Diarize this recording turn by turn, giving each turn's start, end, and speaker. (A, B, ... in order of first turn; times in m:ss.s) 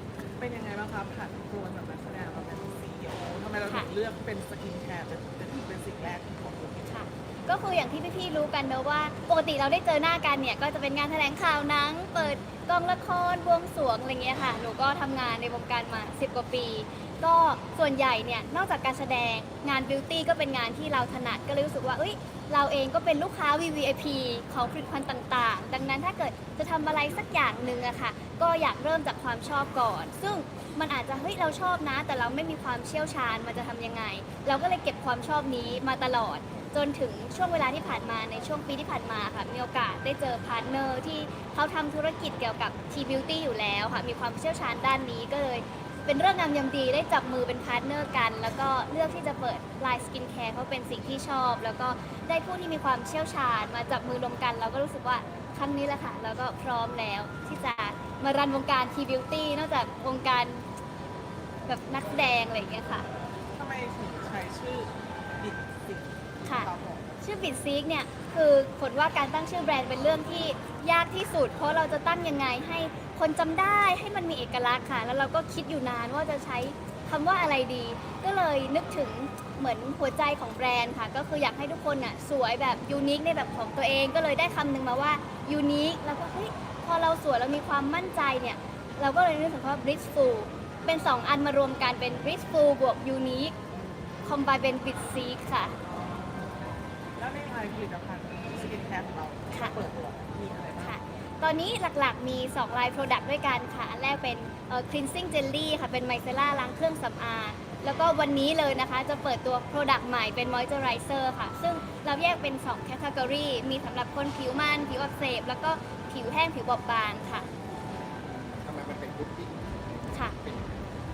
0:00.4-0:07.0 A
0:06.8-1:00.6 B
1:01.7-1:03.1 B
1:03.5-1:07.2 A
1:06.4-1:06.7 B
1:07.2-1:33.5 B
1:34.2-1:35.8 B
1:35.8-1:41.0 A
1:40.8-1:57.5 B
1:58.2-2:00.8 C